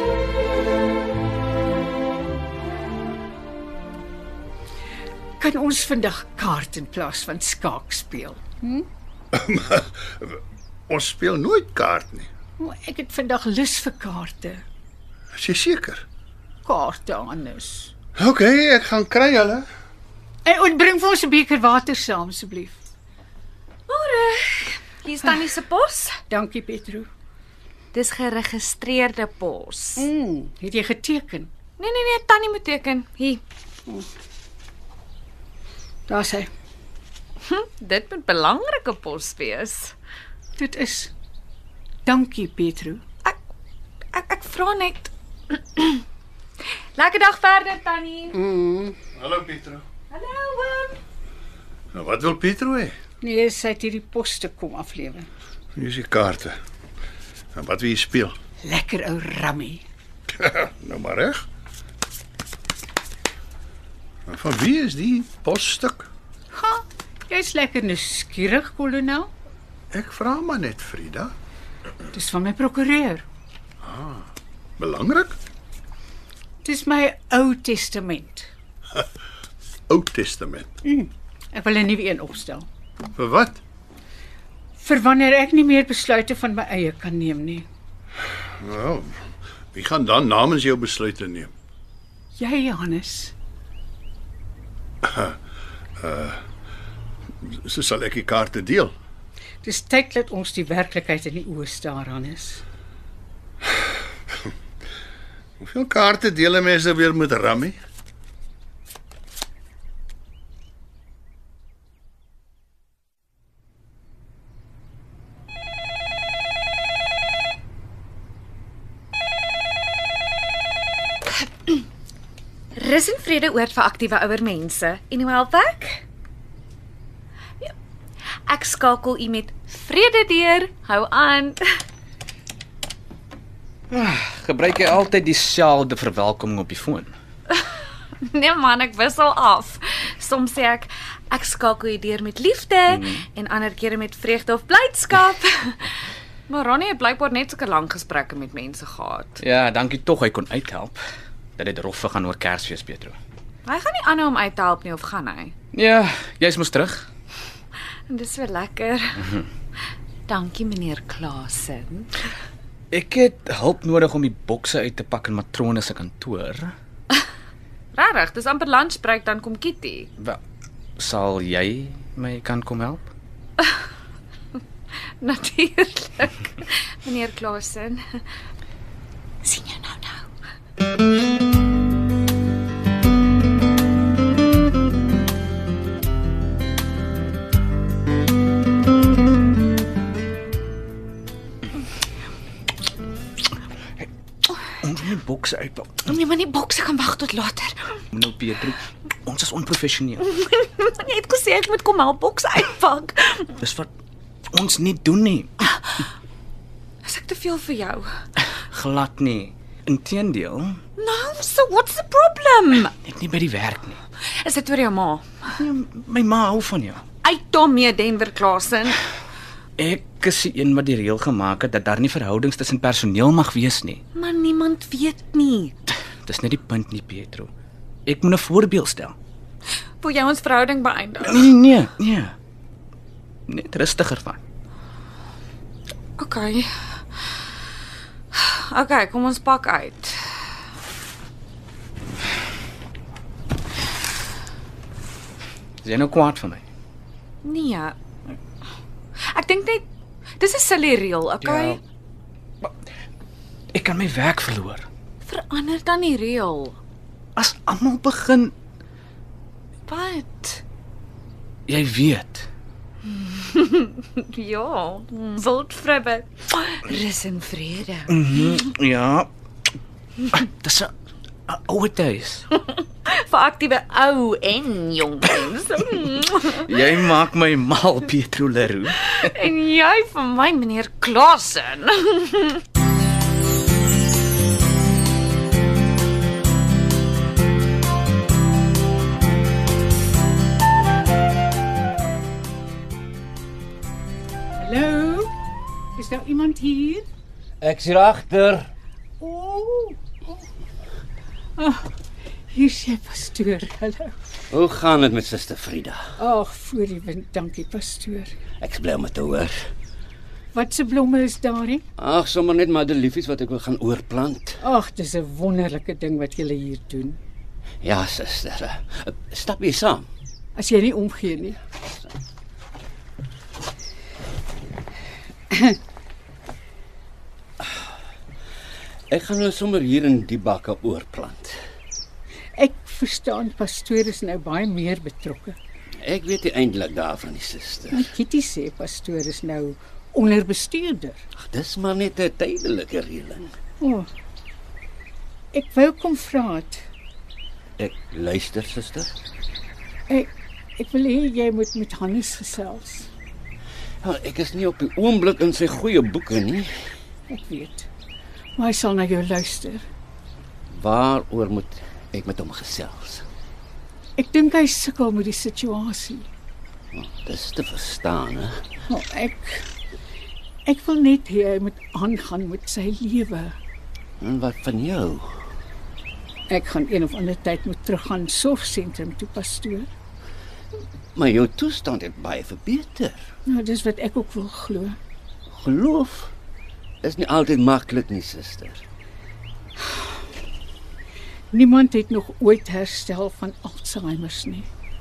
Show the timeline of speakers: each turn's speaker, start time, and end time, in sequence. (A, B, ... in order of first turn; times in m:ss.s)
0:05.4-0:08.8 A
0:09.3-0:12.3 B
0:12.6-0:14.6 A
0:15.3-0:16.0 B
0:16.6-0:17.9 A
0:18.2-0:19.6 B
0:20.4-0:22.8 A
0:23.9-0:26.2 C
0:26.3-0:27.1 A
0:27.9-0:30.1 C
0:30.0-0:31.5 A
0:31.8-0:33.4 C
0:36.1-0:36.5 A
0:37.4-0:39.9 C
0:40.6-0:41.1 A
0:42.0-0:43.0 A
0:44.1-0:46.0 C
0:47.0-0:48.4 C
0:48.3-0:49.0 D
0:49.1-0:49.8 B
0:50.1-0:51.0 C
0:51.9-0:53.0 B
0:53.2-0:55.3 A
0:55.8-0:56.6 B
0:57.5-0:58.4 B
0:58.6-0:59.8 A
1:00.4-1:01.4 B
1:04.3-1:06.1 B
1:06.5-1:09.3 A
1:09.9-1:11.3 B
1:12.1-1:13.2 A
1:13.8-1:14.2 B
1:14.8-1:15.4 B
1:16.6-1:18.5 A
1:19.9-1:20.7 B
1:20.8-1:22.7 A
1:23.1-1:23.6 B
1:24.8-1:27.6 A
1:28.6-1:29.2 B
1:29.7-1:31.5 B
1:32.4-1:33.3 A
1:35.0-1:35.3 B
1:36.0-1:36.4 B
1:37.4-1:38.9 B
1:39.6-1:42.6 A
1:45.6-1:47.8 B
2:01.4-2:01.8 C
2:02.8-2:06.0 C
2:08.5-2:11.6 C
2:13.9-2:17.1 E
2:17.5-2:25.9 C
2:22.9-2:23.2 E
2:26.5-2:29.4 C
2:29.4-2:31.0 E
2:31.6-2:33.1 E
2:33.6-2:35.5 C
2:35.7-2:37.0 E
2:38.1-2:39.3 C
2:40.3-2:42.2 C
2:42.9-2:46.7 E
2:47.9-2:50.1 C
2:51.0-2:53.0 E
2:55.2-2:58.0 C
2:59.4-3:00.2 C
3:14.7-3:16.1 E
3:16.0-3:18.0 C
3:18.1-3:20.2 E
3:20.2-3:23.6 C
3:23.6-3:23.9 E
3:24.5-3:25.5 E
3:25.6-3:26.0 C
3:27.0-3:28.1 C
3:28.4-3:30.8 E
3:31.0-3:32.9 C
3:33.0-3:34.0 E
3:34.3-3:35.6 C
3:35.6-3:37.1 E
3:37.2-3:39.0 C
3:39.8-3:44.0 E
3:44.1-3:45.7 C
3:46.2-3:47.5 E
3:48.1-3:49.1 E
3:50.0-3:51.5 C
3:51.2-3:52.3 E
3:53.5-3:54.4 E
3:56.2-3:57.4 C
3:58.3-4:00.4 C
4:05.8-4:06.6 E
4:07.4-4:08.0 C
4:09.3-4:09.8 C
4:10.4-4:11.8 C
4:11.4-4:11.8 E
4:13.7-4:14.9 E
4:15.3-4:16.8 C
4:17.4-4:18.5 E
4:19.9-4:20.6 C
4:21.7-4:22.5 E
4:23.0-4:28.5 C
4:28.1-4:29.3 E
4:30.3-4:30.9 E
4:31.5-4:32.4 E
4:32.6-4:36.7 C
4:36.6-4:39.3 E
4:39.1-4:42.6 C
4:54.6-4:55.3 A
4:55.9-4:57.0 A
4:57.6-4:58.7 D
4:59.2-5:00.0 A
5:01.6-5:01.9 A
5:02.5-5:04.1 A
5:04.5-5:06.1 D
5:06.2-5:08.3 A
5:08.6-5:09.6 D
5:10.5-5:11.8 A
5:12.0-5:14.6 D
5:14.6-5:17.2 A
5:17.8-5:20.1 D
5:20.5-5:21.6 A
5:25.5-5:25.8 A
5:29.1-5:31.6 D
5:32.6-5:35.6 A
5:36.0-5:38.1 D
5:37.9-5:41.2 A
5:41.4-5:43.5 D
5:43.8-5:44.1 A
5:45.5-5:46.8 A
5:47.8-5:49.1 D
5:50.1-5:53.1 A
5:54.0-5:56.7 D
5:57.3-5:57.9 A
5:58.6-5:59.8 A
6:00.7-6:03.2 D
6:04.2-6:06.3 A
6:06.9-6:08.6 D
6:08.9-6:09.7 A
6:10.6-6:13.5 A
6:14.2-6:15.4 D
6:16.5-6:19.9 A
6:21.1-6:23.2 D
6:23.4-6:25.0 A
6:25.5-6:26.3 D
6:27.0-6:28.8 D
6:31.5-6:34.7 A